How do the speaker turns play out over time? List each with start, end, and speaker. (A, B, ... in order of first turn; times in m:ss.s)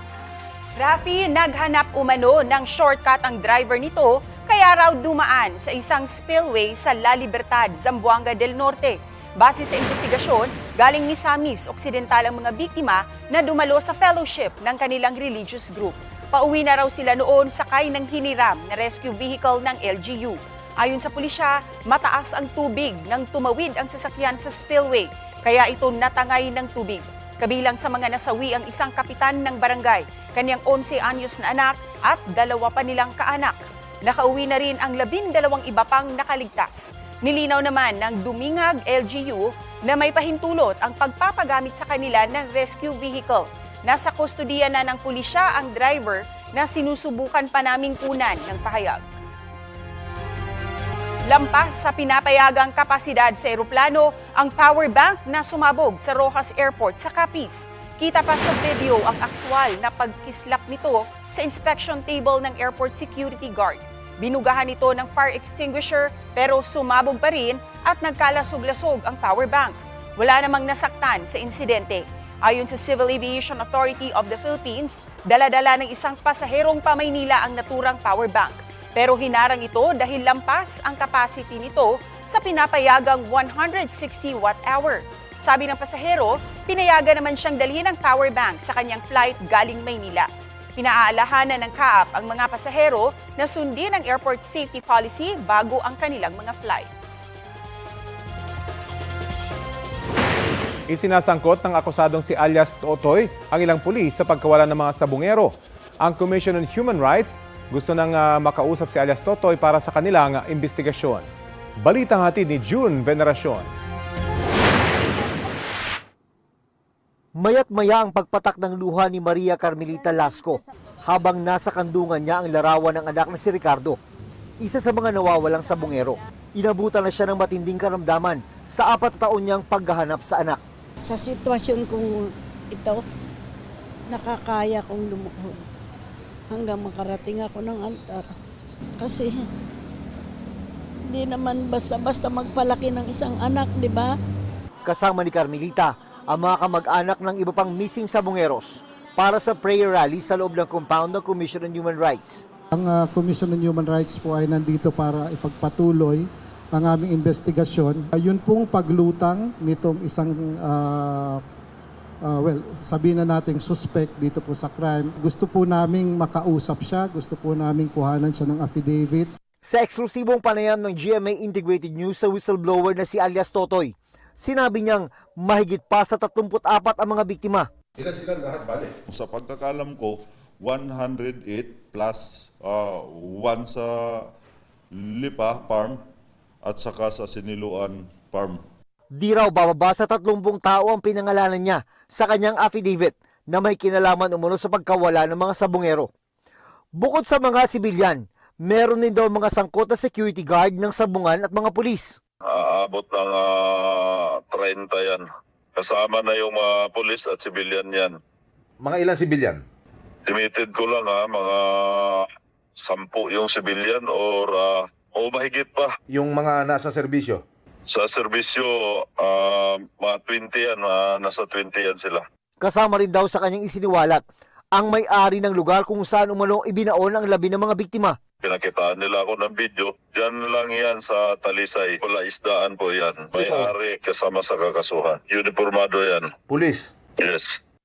0:00.8-0:49.0 A
0:51.3-1:36.9 A
1:40.9-1:51.3 B
1:51.8-1:53.7 B
1:57.4-2:04.0 C
2:04.6-2:10.6 C
2:11.0-2:13.0 D
2:14.1-2:15.6 D
2:16.5-2:18.3 D
2:19.0-2:19.4 D
2:21.1-2:24.1 D
2:24.8-2:32.4 C
2:32.7-2:41.4 E
2:42.2-2:49.3 E
2:49.6-2:57.7 C
2:59.1-3:03.9 F
3:05.0-3:05.9 F
3:06.6-3:08.6 F
3:09.1-3:16.1 C
3:17.0-3:22.2 C
3:22.5-3:25.2 F
3:25.8-3:28.1 F
3:28.8-3:29.6 G
3:30.3-3:32.2 F
3:32.8-3:35.9 F
3:36.1-3:37.4 G
3:37.9-3:42.2 F
3:42.6-3:44.2 C
3:44.8-3:48.2 C
3:48.4-3:56.3 F
3:53.3-3:53.7 G
3:56.5-3:56.8 G
3:57.2-3:57.5 F